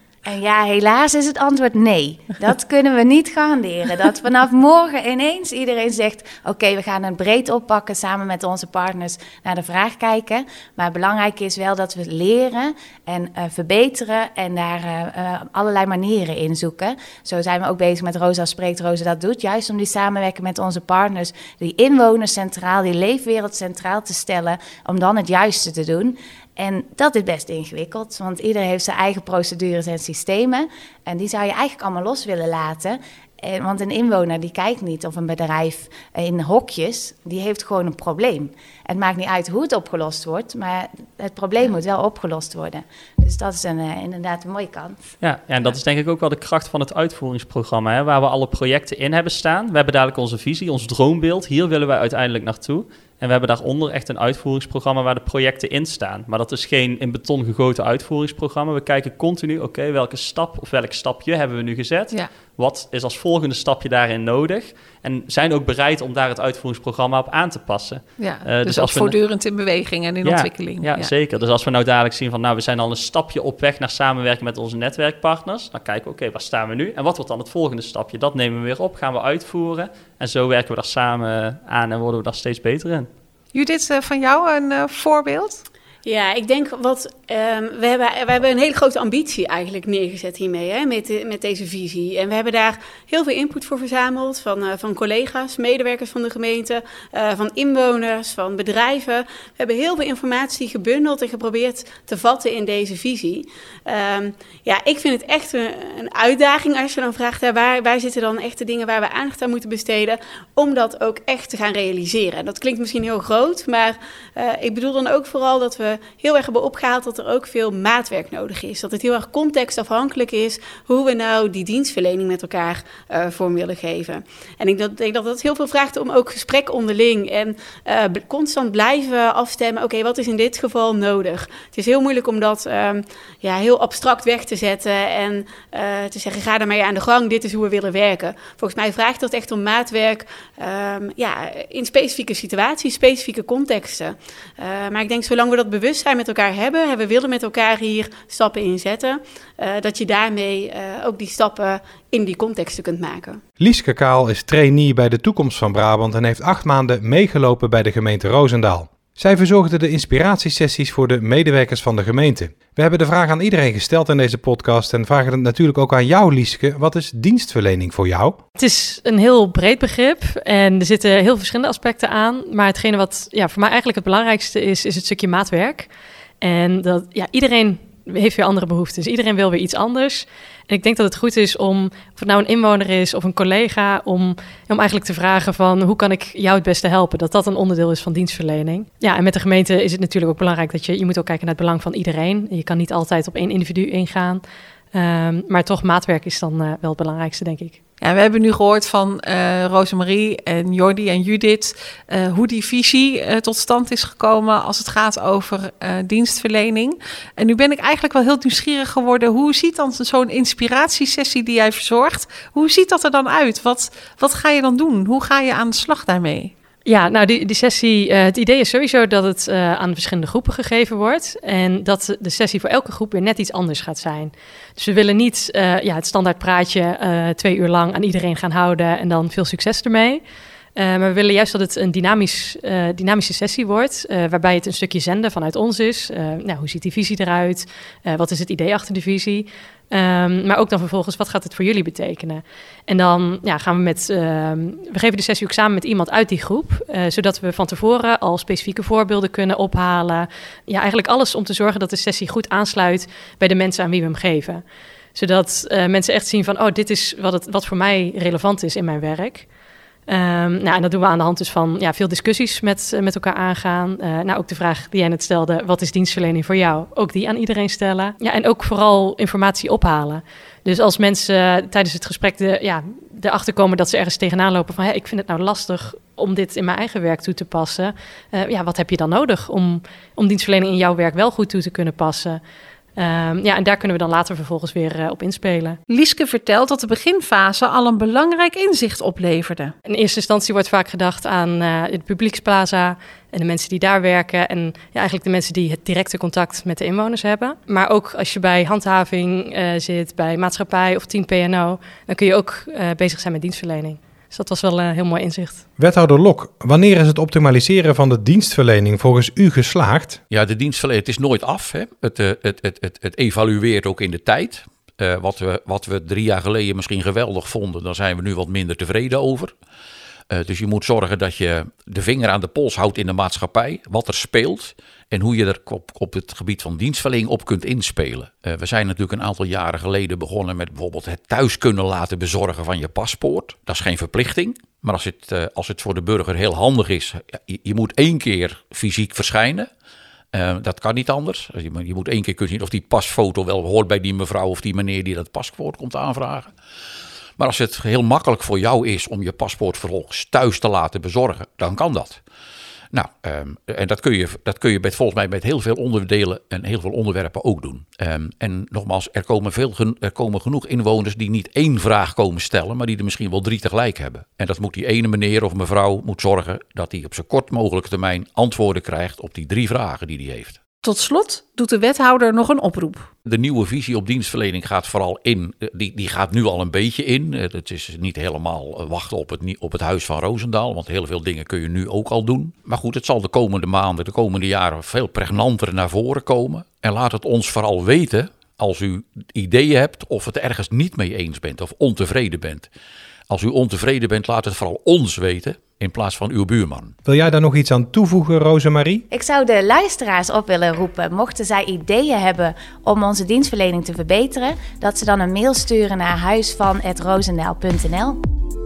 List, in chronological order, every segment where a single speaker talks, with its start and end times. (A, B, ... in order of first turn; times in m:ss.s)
0:00.3-0:45.0 A
0:45.2-1:09.2 B
1:08.2-1:11.1 C
1:10.2-1:23.1 B
1:23.5-1:25.6 C
1:26.0-2:33.4 D
2:33.6-2:48.4 E
2:48.6-2:55.9 F
2:56.4-3:14.4 F
3:14.9-3:17.8 F
3:18.0-3:36.5 C
3:36.9-3:50.2 F
3:50.8-4:14.6 F
4:15.2-4:19.5 F
4:20.1-4:42.4 F
4:43.0-4:45.8 F
4:45.9-4:49.7 C
4:49.9-5:05.6 F
5:05.8-5:10.2 E
5:10.3-5:19.5 G
5:20.3-5:39.7 G
5:40.3-5:46.5 G
5:47.4-5:52.2 G
5:52.9-6:10.6 G
6:10.8-6:13.1 C
6:13.3-6:32.7 G
6:33.3-6:37.0 G
6:37.1-6:39.0 E
6:39.1-6:48.2 A